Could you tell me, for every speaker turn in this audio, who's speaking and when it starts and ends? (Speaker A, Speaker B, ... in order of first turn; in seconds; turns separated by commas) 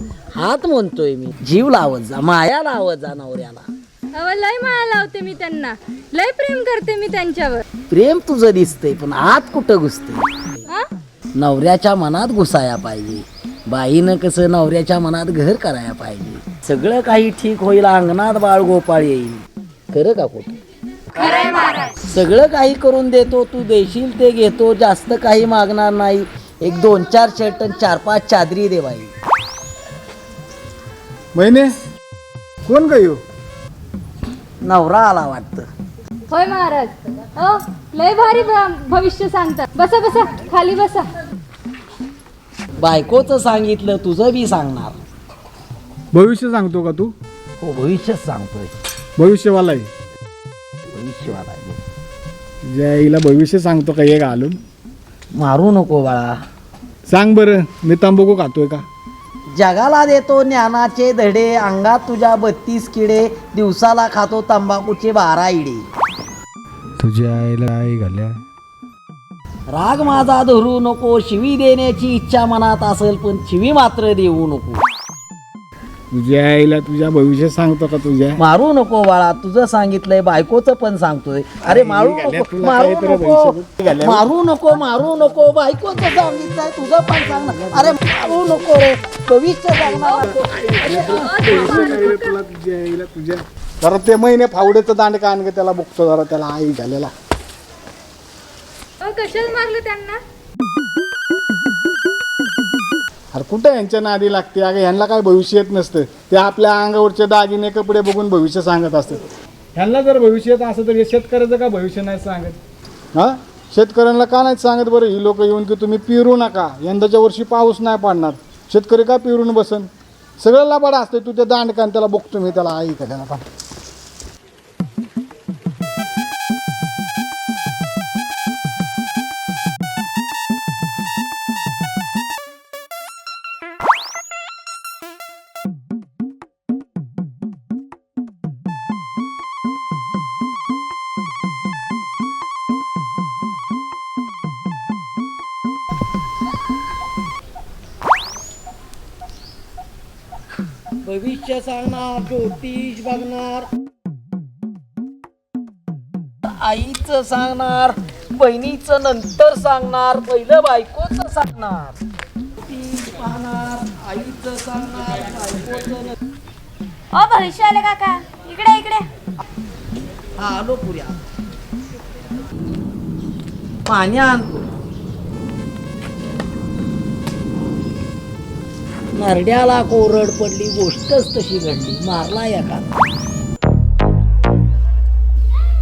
Speaker A: 0.3-3.7, Speaker B: 4.2-7.6, Speaker A: 7.9-10.3, Speaker A: 11.4-20.6, Speaker A: 22.1-29.1, Speaker C: 31.4-31.7, Speaker C: 32.7-33.2, Speaker A: 34.6-35.7, Speaker B: 36.3-41.1, Speaker A: 42.8-45.0, Speaker C: 46.1-47.1, Speaker A: 47.6-48.7, Speaker C: 49.2-49.9, Speaker A: 50.9-51.8, Speaker C: 52.7-54.6, Speaker A: 55.3-56.4, Speaker C: 57.1-58.9, Speaker A: 59.5-65.9, Speaker C: 67.0-68.4, Speaker A: 69.7-74.8, Speaker C: 76.1-78.4, Speaker A: 78.4-92.0, Speaker C: 81.6-84.3, Speaker C: 90.1-97.1, Speaker B: 90.8-92.3, Speaker B: 99.0-100.2, Speaker C: 103.3-109.2, Speaker C: 109.8-112.6, Speaker C: 113.2-119.9, Speaker C: 120.4-123.4, Speaker A: 151.0-153.7, Speaker A: 156.4-162.0, Speaker A: 162.6-166.2, Speaker D: 167.1-169.1, Speaker A: 170.4-171.2, Speaker A: 173.8-174.7, Speaker A: 179.1-182.9